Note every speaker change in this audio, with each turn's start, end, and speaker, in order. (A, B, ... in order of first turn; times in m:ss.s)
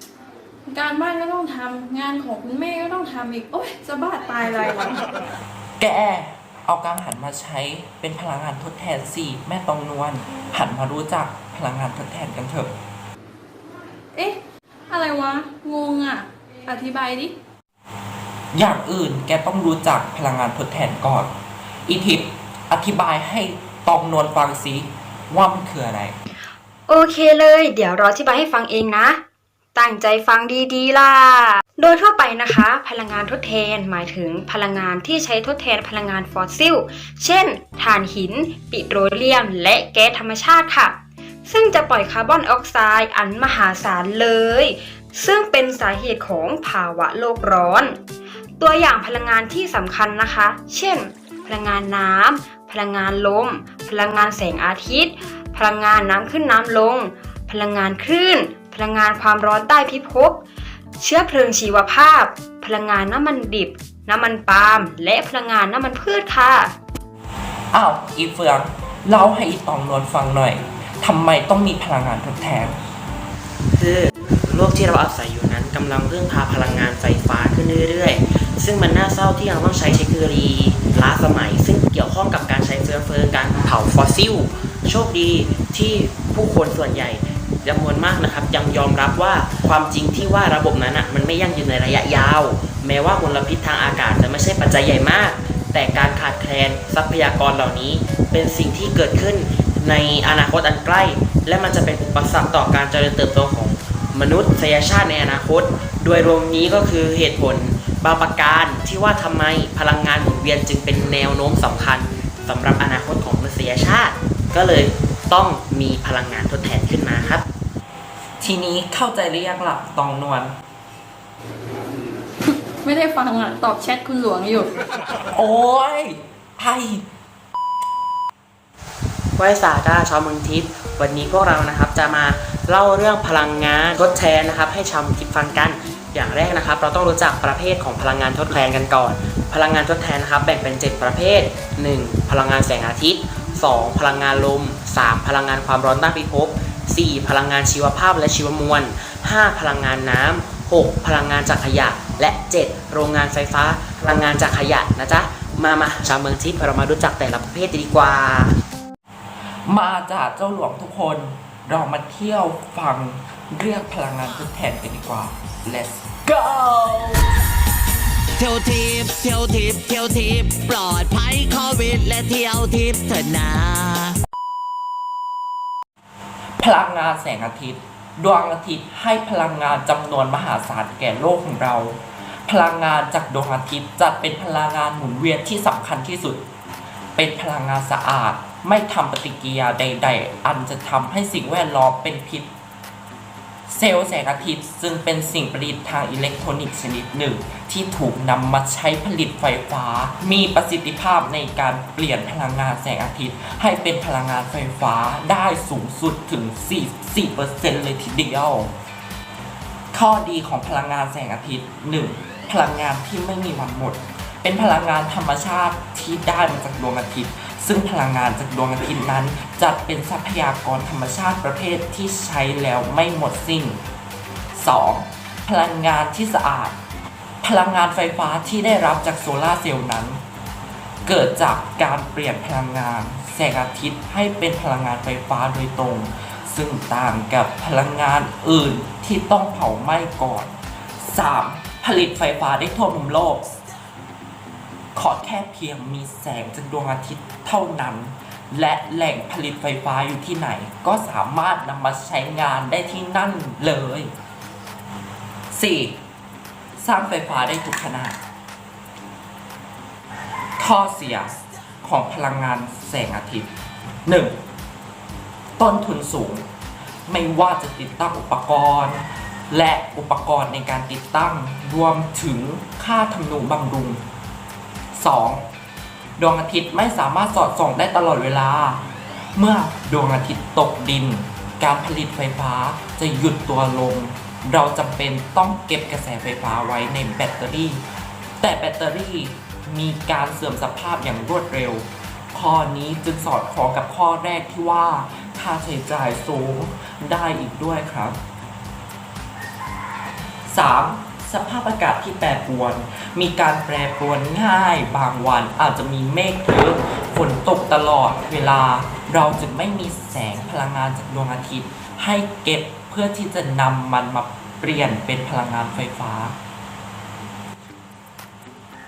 0:00.7-0:05.0 A
0:05.8-0:12.7 B
0:14.9-0:17.3 A
0:18.5-0:21.3 B
0:21.9-0:26.2 B
0:26.9-0:29.2 C
0:29.8-0:48.0 C
0:48.6-1:00.4 C
1:01.0-1:06.8 C
1:07.7-1:12.8 B
1:13.7-1:57.5 D
1:58.4-2:00.6 B
2:02.5-2:04.7 A
2:05.3-2:07.0 B
2:09.4-2:38.6 D
2:39.7-2:47.2 B
2:46.6-2:47.0 E
2:48.4-2:54.2 E
2:56.6-3:06.4 B
3:07.2-3:12.5 B
3:13.7-3:28.7 B
3:29.9-3:43.8 B
3:44.5-3:46.8 B
3:47.4-3:50.2 B
3:51.0-4:03.6 B
4:05.0-4:14.1 B
4:15.5-4:16.0 B
4:16.8-4:18.2 B
4:20.6-4:23.5 B
4:24.1-4:24.4 B
4:25.6-4:26.4 B
4:27.1-4:34.0 B
4:34.9-4:35.4 B
4:36.2-4:38.8 B
4:39.4-4:47.8 B
4:48.4-4:58.2 B
5:00.5-5:16.4 B